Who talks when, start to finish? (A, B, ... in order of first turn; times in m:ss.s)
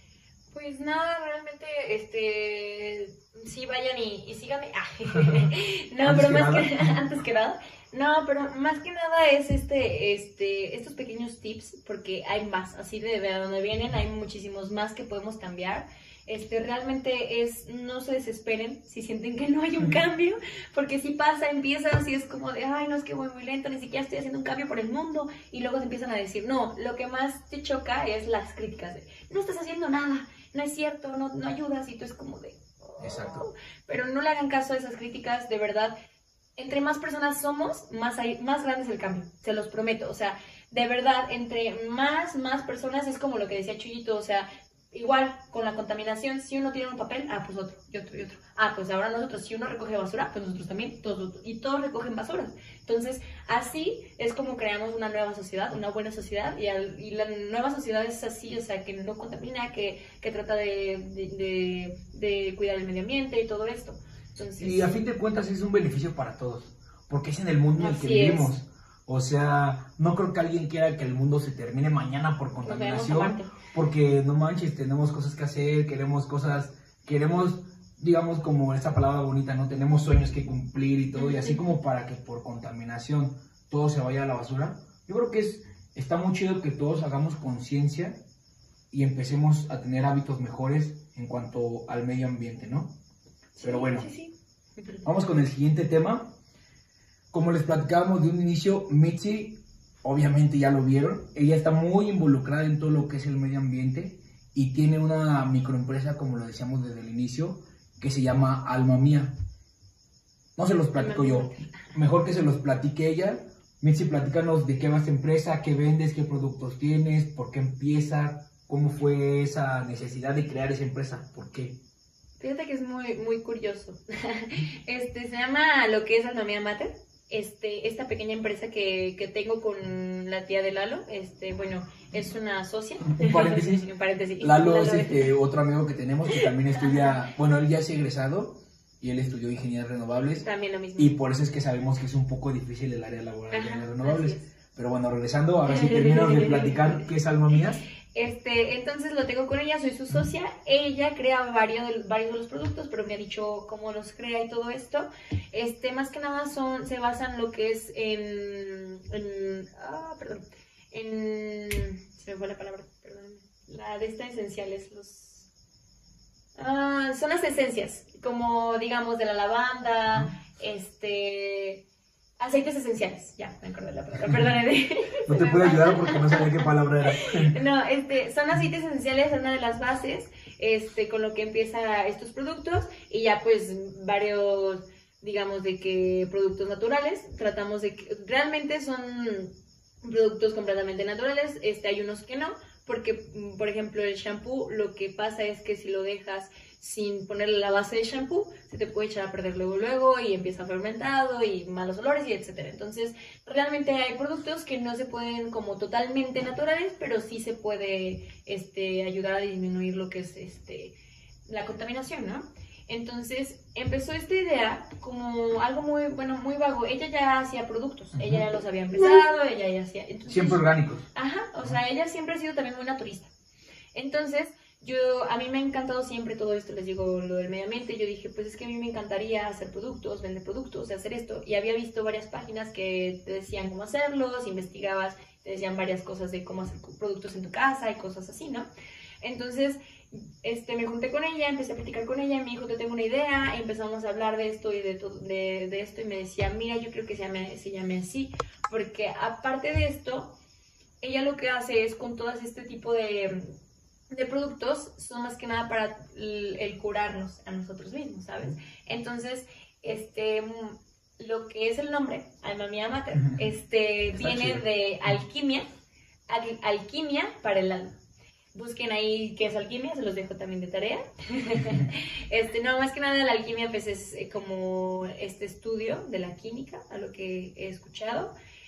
0:00.5-0:35.9 A
0:05.1-0:07.0 B
0:33.0-0:33.5 B
0:36.6-1:04.9 A
1:04.6-1:28.2 B
1:07.8-1:08.5 A
1:12.6-1:13.5 A
1:21.2-1:21.6 A
1:28.9-1:32.9 B
1:33.6-1:35.0 A
1:33.6-1:34.1 B
1:35.0-1:36.3 B
1:37.3-1:49.3 B
1:50.6-2:01.8 B
1:50.9-1:51.7 A
2:02.4-2:15.3 A
2:13.0-2:13.9 B
2:14.4-2:20.4 B
2:16.3-2:17.1 A
2:20.4-2:21.1 A
2:21.0-2:27.8 B
2:23.5-2:24.5 A
2:25.7-2:27.0 A
2:28.1-2:45.5 A
2:46.6-2:51.8 A
2:52.4-3:09.5 A
2:55.2-2:57.6 B
3:10.0-3:30.9 A
3:31.5-3:43.3 A
3:38.2-3:38.4 B
3:40.3-3:41.1 B
3:43.9-3:58.7 A
3:59.2-4:10.3 A
4:11.0-4:13.6 A
4:14.1-4:25.6 A
4:24.2-4:24.6 B
4:26.3-4:28.0 A
4:28.5-4:38.3 A